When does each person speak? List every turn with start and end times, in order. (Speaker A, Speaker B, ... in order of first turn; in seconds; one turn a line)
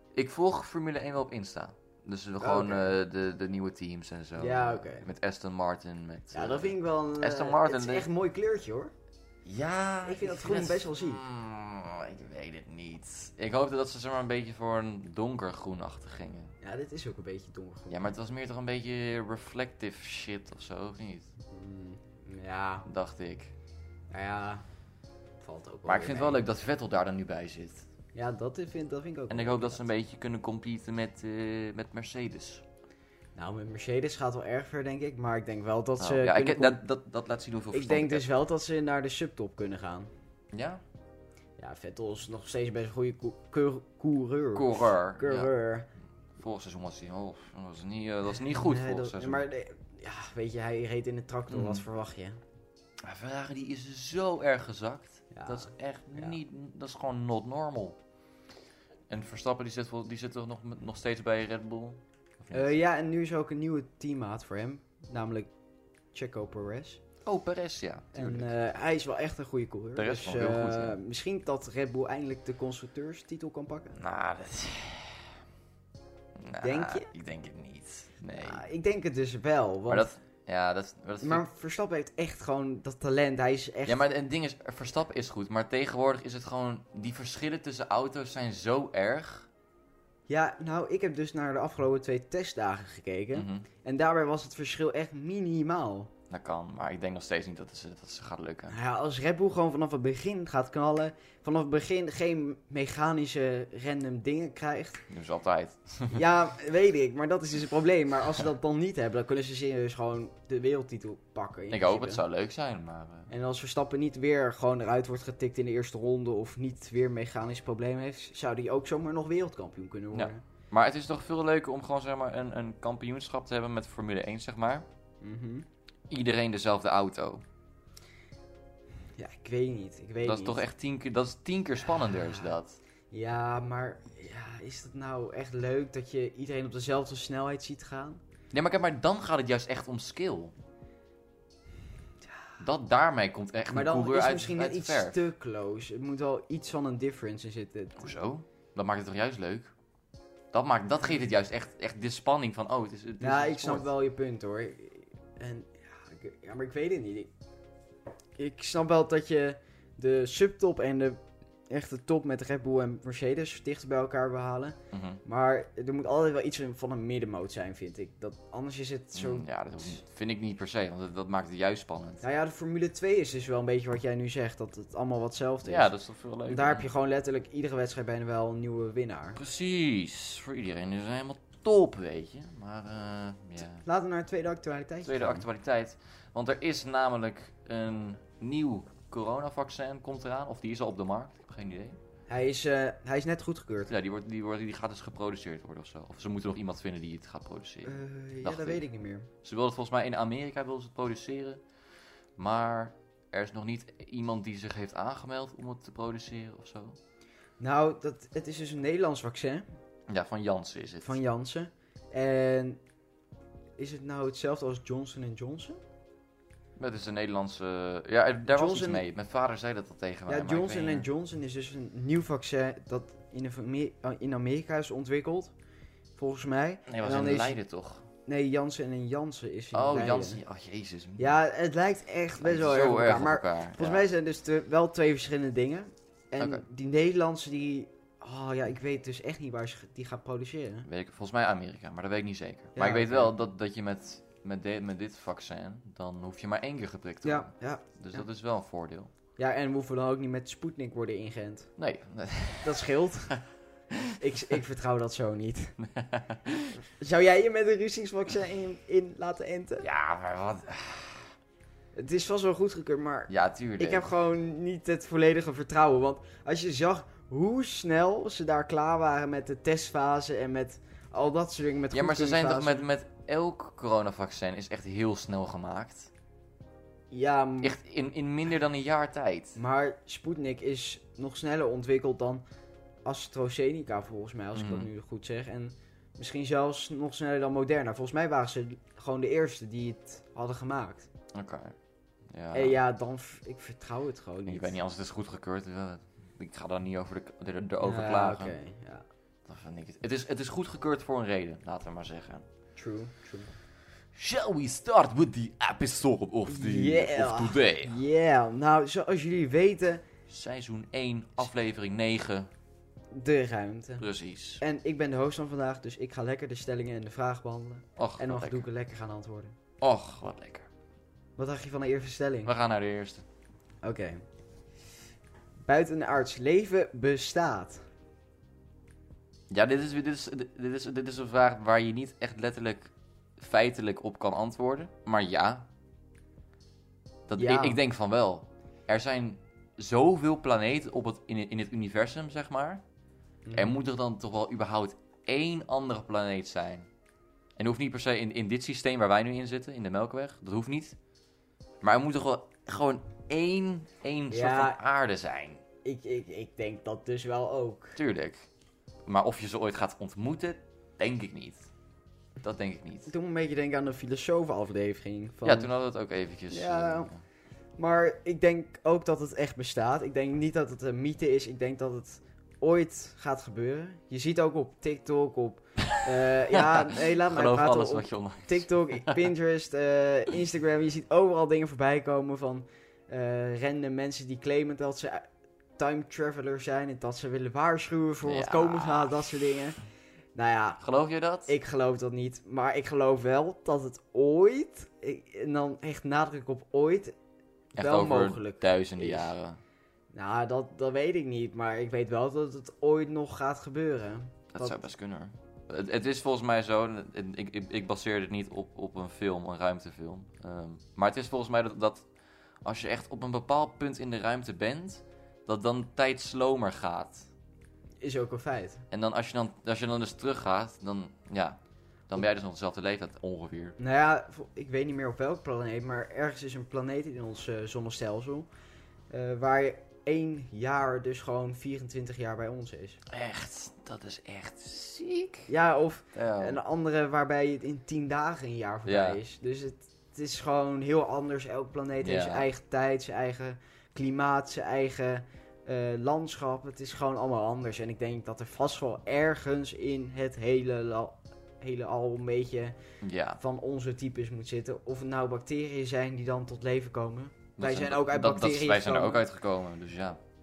Speaker A: 0.1-8.1
Speaker B: 2.4-2.9
Speaker B: 4.4-5.1
Speaker B: 6.3-8.9
Speaker A: 9.4-16.5
Speaker B: 10.1-11.2
Speaker B: 16.6-18.1
Speaker A: 17.9-21.3
Speaker B: 21.5-22.9
Speaker A: 22.9-23.5
Speaker B: 24.1-24.6
Speaker B: 25.4-26.4
Speaker A: 25.9-27.9
Speaker B: 28.1-29.9
Speaker A: 29.3-32.6
Speaker B: 33.4-36.8
Speaker A: 36.0-38.3
Speaker B: 37.7-40.1
Speaker A: 40.5-40.8
Speaker B: 41.6-45.9
Speaker A: 44.5-45.5
Speaker A: 46.4-49.5
Speaker B: 48.5-52.4
Speaker A: 51.5-51.9
Speaker A: 53.0-58.0
Speaker B: 55.3-56.4
Speaker A: 59.1-62.8
Speaker B: 62.5-65.5
Speaker B: 66.1-67.0
Speaker A: 67.2-68.5
Speaker B: 68.1-74.0
Speaker A: 70.0-71.0
Speaker A: 73.9-75.3
Speaker A: 76.4-78.6
Speaker B: 76.6-77.1
Speaker B: 78.4-80.1
Speaker A: 79.9-81.4
Speaker B: 81.2-84.0
Speaker A: 83.9-89.5
Speaker B: 90.3-96.1
Speaker A: 93.3-93.7
Speaker A: 96.3-98.8
Speaker B: 98.7-105.0
Speaker A: 105.1-106.2
Speaker B: 106.1-112.2
Speaker A: 111.7-113.3
Speaker B: 113.3-120.4
Speaker A: 120.1-124.9
Speaker B: 125.2-125.7
Speaker A: 126.1-127.4
Speaker B: 129.2-130.6
Speaker A: 130.2-132.8
Speaker B: 133.1-138.2
Speaker A: 138.5-140.5
Speaker A: 142.6-145.2
Speaker B: 143.7-148.1
Speaker A: 148.0-149.7
Speaker A: 150.5-153.9
Speaker B: 153.2-157.3
Speaker B: 158.4-170.0
Speaker A: 164.9-165.2
Speaker A: 169.2-172.2
Speaker B: 172.2-175.9
Speaker A: 175.6-176.9
Speaker B: 176.4-179.4
Speaker A: 179.4-183.8
Speaker B: 183.8-185.4
Speaker A: 185.0-192.0
Speaker B: 192.3-193.9
Speaker A: 193.9-198.8
Speaker B: 197.8-199.3
Speaker A: 199.4-201.6
Speaker A: 202.4-207.0
Speaker B: 207.6-209.7
Speaker A: 210.1-211.2
Speaker B: 211.0-212.8
Speaker B: 213.8-215.8
Speaker A: 216.8-221.1
Speaker B: 218.5-219.1
Speaker B: 220.3-225.5
Speaker B: 226.2-227.6
Speaker A: 226.9-228.1
Speaker B: 228.3-230.4
Speaker A: 229.7-231.4
Speaker B: 231.2-240.9
Speaker A: 232.4-234.1
Speaker A: 236.4-236.6
Speaker A: 240.9-249.1
Speaker B: 242.8-243.3
Speaker B: 247.2-247.8
Speaker B: 249.4-251.7
Speaker A: 251.8-253.4
Speaker B: 252.6-253.4
Speaker A: 253.9-254.2
Speaker B: 254.2-255.8
Speaker A: 255.8-256.8
Speaker B: 257.0-259.9
Speaker A: 259.8-261.3
Speaker B: 262.0-272.9
Speaker A: 263.3-264.1
Speaker A: 271.9-276.1
Speaker B: 277.1-277.8
Speaker A: 277.6-279.6
Speaker B: 279.6-282.4
Speaker B: 283.1-291.1
Speaker A: 284.6-284.9
Speaker A: 291.3-291.8
Speaker A: 292.3-292.8
Speaker B: 292.5-294.8
Speaker A: 294.5-298.6
Speaker B: 297.8-299.1
Speaker A: 299.5-302.5
Speaker B: 302.8-303.5
Speaker A: 304.1-308.0
Speaker B: 306.5-310.0
Speaker A: 310.3-312.5
Speaker B: 313.1-314.1
Speaker A: 314.0-314.6
Speaker B: 314.6-319.6
Speaker A: 318.0-318.7
Speaker A: 319.8-320.7
Speaker B: 321.4-322.5
Speaker A: 322.4-323.2
Speaker B: 323.8-324.2
Speaker B: 325.7-327.8
Speaker A: 329.5-335.7
Speaker A: 337.3-342.8
Speaker B: 337.4-337.8
Speaker B: 343.4-343.8
Speaker A: 343.5-346.9
Speaker A: 347.6-351.0
Speaker A: 351.8-355.6
Speaker B: 354.3-354.8
Speaker B: 355.8-358.0
Speaker A: 358.0-358.5
Speaker A: 359.1-361.7
Speaker A: 362.4-363.1
Speaker B: 363.1-365.7
Speaker A: 365.4-367.2
Speaker B: 366.5-367.1
Speaker B: 367.8-385.3
Speaker A: 375.8-379.3
Speaker B: 385.8-389.8
Speaker A: 388.2-389.5
Speaker B: 390.4-390.8
Speaker A: 390.8-391.5
Speaker B: 391.5-397.1
Speaker B: 397.8-399.3
Speaker A: 397.8-399.6
Speaker B: 400.1-404.8
Speaker A: 404.5-412.1
Speaker A: 412.6-417.3
Speaker B: 418.0-418.8
Speaker A: 418.9-423.8
Speaker B: 423.8-428.5
Speaker B: 429.1-433.0
Speaker A: 433.1-435.5
Speaker B: 435.5-452.8
Speaker A: 436.1-436.6
Speaker A: 438.9-439.2
Speaker A: 442.0-442.5
Speaker A: 453.0-453.4
Speaker B: 453.4-459.2
Speaker A: 457.6-460.2